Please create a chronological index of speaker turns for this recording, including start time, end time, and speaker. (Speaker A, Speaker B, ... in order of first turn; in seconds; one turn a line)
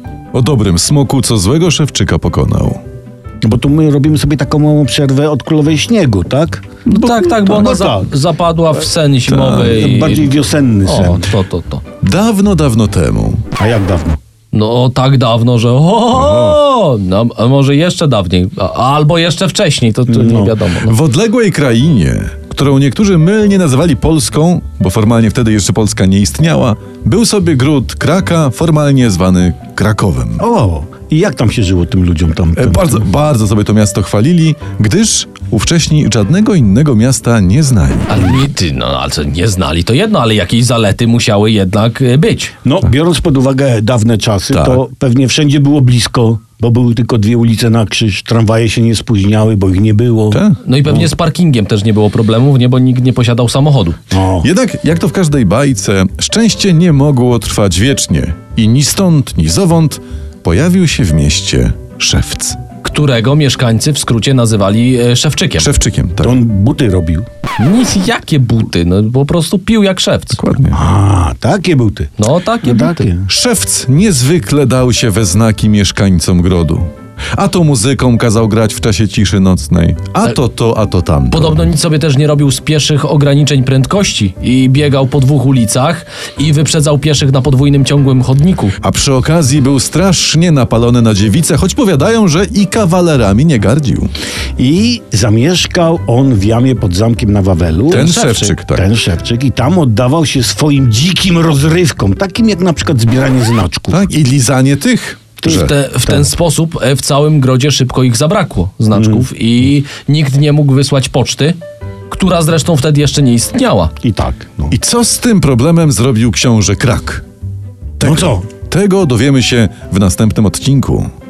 Speaker A: 0.3-2.8
Speaker B: 3.4-6.7
Speaker C: 6.9-11.8
Speaker A: 6.9-7.4
Speaker B: 7.4-8.1
Speaker B: 9.2-11.3
Speaker A: 12.0-13.4
Speaker B: 13.5-14.2
Speaker C: 14.5-20.9
Speaker A: 16.1-16.6
Speaker B: 20.1-20.6
Speaker A: 20.8-30.4
Speaker B: 30.4-33.0
Speaker A: 32.6-38.5
Speaker C: 38.1-42.5
Speaker B: 42.6-51.1
Speaker A: 44.5-44.8
Speaker A: 50.3-50.6
Speaker C: 50.6-54.0
Speaker B: 54.1-54.5
Speaker A: 54.4-62.6
Speaker C: 62.8-65.7
Speaker A: 65.6-66.4
Speaker B: 66.2-67.2
Speaker C: 67.6-70.4
Speaker A: 70.4-70.8
Speaker B: 70.7-72.1
Speaker C: 72.2-73.1
Speaker B: 72.6-73.3
Speaker A: 73.3-81.7
Speaker C: 81.3-88.8
Speaker A: 88.8-94.1
Speaker B: 94.6-98.1
Speaker A: 97.9-98.8
Speaker C: 97.9-98.5
Speaker B: 98.7-104.1
Speaker A: 103.9-105.7
Speaker B: 105.4-106.3
Speaker C: 105.4-111.6
Speaker B: 108.9-109.2
Speaker C: 112.1-113.9
Speaker B: 114.0-114.7
Speaker A: 114.7-117.2
Speaker A: 118.0-121.1
Speaker B: 118.0-118.4